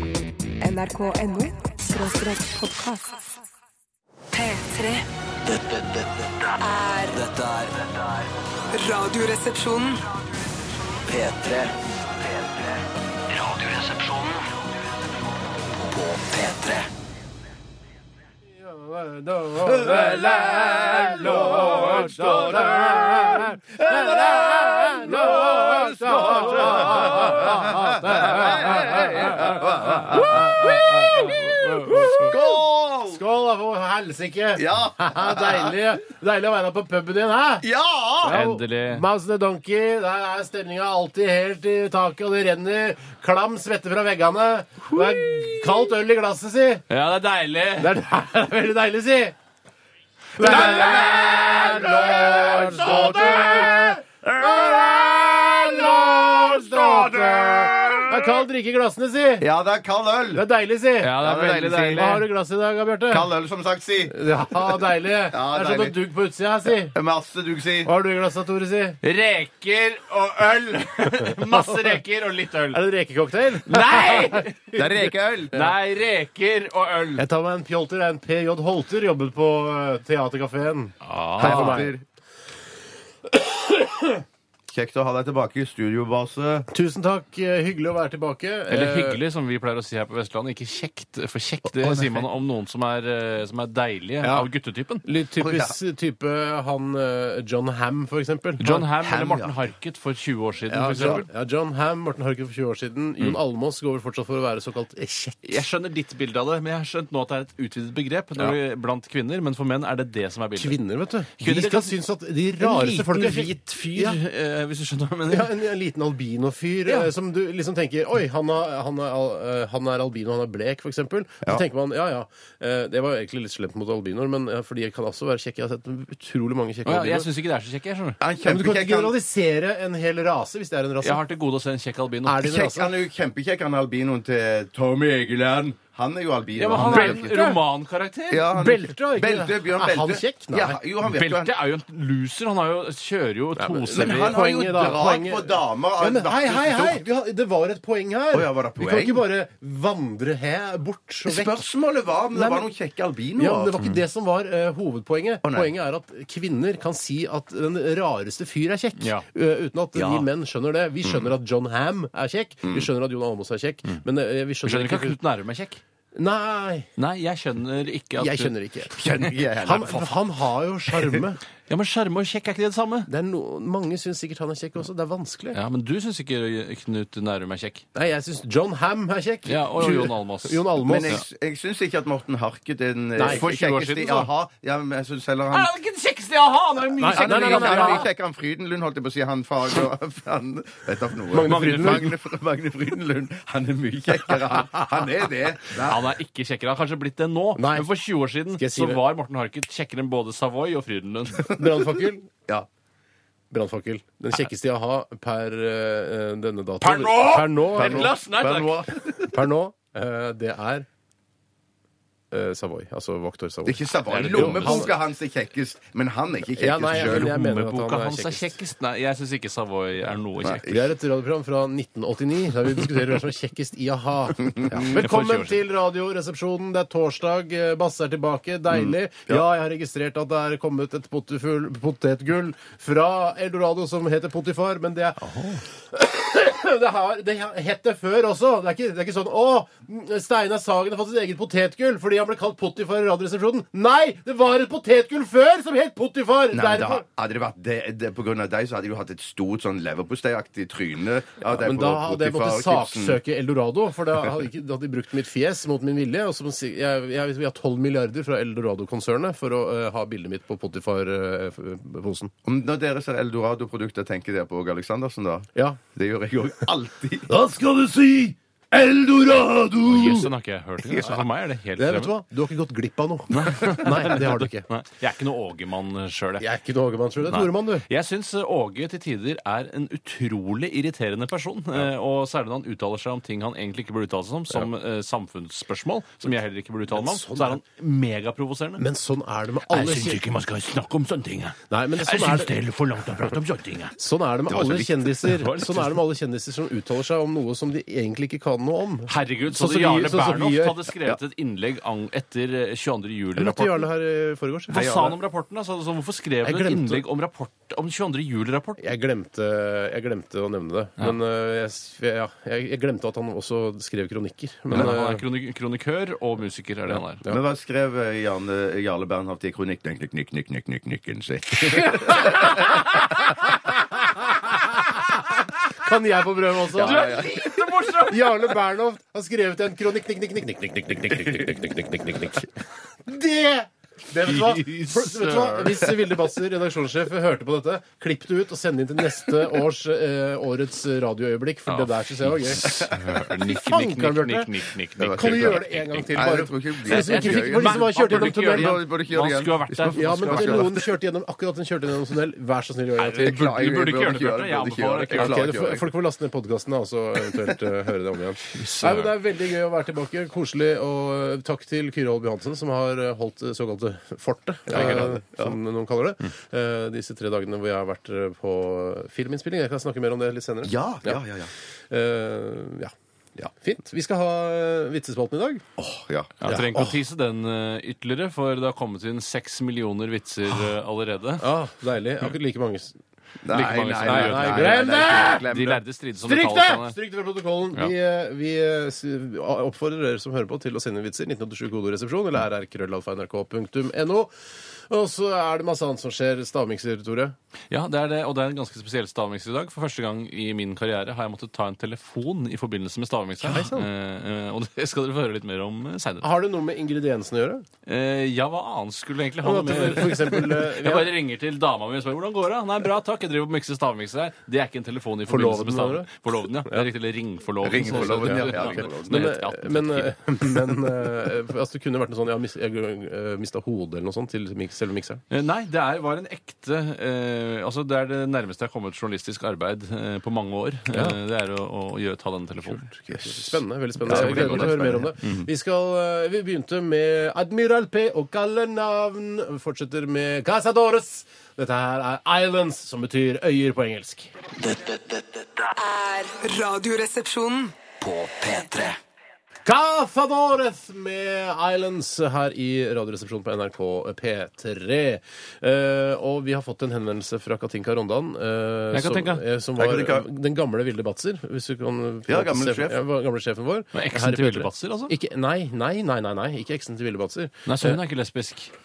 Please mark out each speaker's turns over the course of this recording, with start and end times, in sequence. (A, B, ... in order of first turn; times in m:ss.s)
0:00.6-0:03.2 A
0:04.3-0:05.0 A
0:05.4-0:06.5 B
0:06.6-0:07.2 A
0:07.1-0:08.3 B
0:08.7-0:10.0 A
0:11.0-0:12.8 B
0:13.3-0:14.5 B
0:15.7-0:16.9 B
0:18.5-0:32.3 C
0:19.6-0:33.2 D
0:26.3-0:27.4 E
0:30.0-0:32.2 E
0:33.1-0:37.6 C
0:34.6-0:35.7 D
0:37.6-0:38.4 D
0:38.2-0:46.8 C
0:38.2-0:39.0 E
0:44.9-0:45.6 E
0:46.9-0:48.0 E
0:47.8-0:49.3 C
0:50.4-0:59.5 C
0:50.4-0:53.7 D
0:50.5-0:51.0 E
0:52.5-0:53.8 E
0:54.4-0:58.4 D
0:59.4-1:00.4 D
1:00.3-1:01.2 C
1:01.0-1:02.3 E
1:01.2-1:02.1 D
1:01.9-1:03.3 C
1:03.1-1:04.8 D
1:04.1-1:06.9 C
1:05.3-1:06.0 D
1:06.8-1:07.9 D
1:07.8-1:09.0 C
1:09.0-1:12.8 E
1:11.2-1:11.9 C
1:12.7-1:15.7 C
1:13.6-1:14.8 E
1:14.8-1:15.6 D
1:15.5-1:17.2 E
1:17.2-1:21.9 C
1:21.0-1:21.9 E
1:21.4-1:22.0 D
1:23.3-1:24.2 C
1:24.7-1:26.7 D
1:26.7-1:29.2 C
1:28.7-1:35.0 E
1:31.8-1:32.2 D
1:34.2-1:34.5 C
1:35.0-1:38.8 C
1:35.4-1:35.8 D
1:38.6-1:41.2 E
1:39.0-1:39.7 D
1:40.7-1:45.6 C
1:45.4-1:50.8 E
1:50.6-1:54.2 C
1:51.4-1:52.0 E
1:52.6-1:55.6 E
1:55.3-2:07.3 C
1:56.9-1:57.1 E
2:06.8-2:08.2 E
2:08.2-2:09.1 D
2:08.4-2:11.2 C
2:11.0-2:12.5 E
2:12.2-2:12.9 C
2:12.4-2:17.4 D
2:16.6-2:18.5 E
2:16.8-2:17.6 C
2:18.3-2:21.5 D
2:18.5-2:20.8 C
2:21.0-2:24.4 E
2:23.6-2:31.6 C
2:23.9-2:27.0 D
2:28.3-2:29.2 D
2:31.2-2:33.8 D
2:32.3-2:32.7 C
2:33.4-2:45.2 C
2:35.4-2:35.7 D
2:39.0-2:39.2 E
2:39.9-2:40.3 D
2:44.6-2:45.8 E
2:46.1-2:46.9 C
2:47.0-2:49.3 E
2:48.2-2:48.9 C
2:49.0-2:50.2 D
2:49.6-2:51.4 C
2:51.7-2:53.1 E
2:53.1-2:55.6 C
2:55.5-2:57.8 E
2:57.9-3:01.2 C
2:59.4-3:01.2 E
3:00.8-3:05.7 D
3:03.1-3:03.4 C
3:03.2-3:04.3 E
3:05.5-3:08.0 E
3:07.0-3:08.0 C
3:07.0-3:16.0 D
3:11.3-3:12.1 C
3:11.4-3:12.1 E
3:15.8-3:21.6 E
3:17.6-3:17.9 C
3:18.6-3:19.0 C
3:21.5-3:22.3 C
3:23.5-3:28.1 C
3:26.8-3:29.1 E
3:27.8-3:29.0 D
3:29.3-3:30.8 C
3:32.3-3:34.9 C
3:33.6-3:37.3 D
3:34.1-3:34.9 E
3:36.5-3:38.6 C
3:36.9-3:40.8 E
3:40.4-3:40.8 D
3:40.7-4:07.0 C
3:44.5-3:44.8 D
3:44.9-3:45.6 E
3:48.7-3:49.4 D
3:55.3-3:55.6 E
4:06.5-4:13.2 D
4:11.4-4:22.3 C
4:22.4-4:27.3 D
4:25.5-4:25.8 C
4:27.3-4:30.3 C
4:29.8-4:32.1 E
4:31.8-4:34.7 C
4:33.3-4:36.4 E
4:36.4-4:37.8 C
4:37.3-4:48.8 E
4:46.9-4:47.6 C
4:48.8-4:50.3 C
4:49.7-4:54.0 E
4:51.7-4:52.5 C
4:54.0-5:00.8 C
4:54.5-4:55.1 D
4:55.2-4:56.0 E
4:59.1-5:03.9 E
5:03.4-5:05.2 C
5:04.7-5:08.8 E
5:06.4-5:07.0 C
5:08.8-5:15.2 C
5:14.7-5:17.2 E
5:16.9-5:17.4 C
5:17.3-5:22.8 D
5:22.1-5:22.6 C
5:24.4-5:32.5 C
5:26.7-5:27.6 D
5:26.7-5:28.4 E
5:31.1-5:31.5 D
5:33.0-5:42.9 C
5:34.2-5:35.9 E
5:41.7-5:46.2 E
5:43.4-5:48.8 C
5:45.0-5:50.8 D
5:46.8-5:50.8 E
5:49.9-5:53.5 C
5:53.0-5:55.9 D
5:53.2-5:55.7 E
5:55.1-6:11.2 C
5:58.5-5:59.1 E
6:04.7-6:05.6 D
6:10.6-6:11.5 D
6:11.9-6:15.6 C
6:15.8-6:16.3 D
6:16.4-6:21.4 E
6:16.4-6:17.0 C
6:21.4-6:23.0 C
6:23.4-6:25.8 D
6:23.5-6:26.9 E
6:24.0-6:25.5 C
6:26.2-6:34.3 C
6:34.9-6:37.3 C
6:37.7-6:46.2 E
6:43.4-6:43.9 C
6:46.2-6:47.6 C
6:47.8-7:00.7 E
6:49.4-6:51.1 C
6:55.3-6:56.8 C
6:57.6-6:59.3 D
6:57.9-7:05.2 C
7:05.3-7:13.0 E
7:10.9-7:11.2 C
7:12.6-7:24.3 C
7:13.1-7:13.4 D
7:14.0-7:15.1 E
7:14.0-7:15.5 D
7:24.6-7:25.7 B
7:25.8-7:27.8 A
7:28.0-7:29.0 B
7:29.6-7:48.0 C
7:38.9-7:39.4 E
7:39.8-7:40.3 D
7:42.3-7:43.0 D
7:43.9-7:45.1 E
7:47.6-7:48.7 E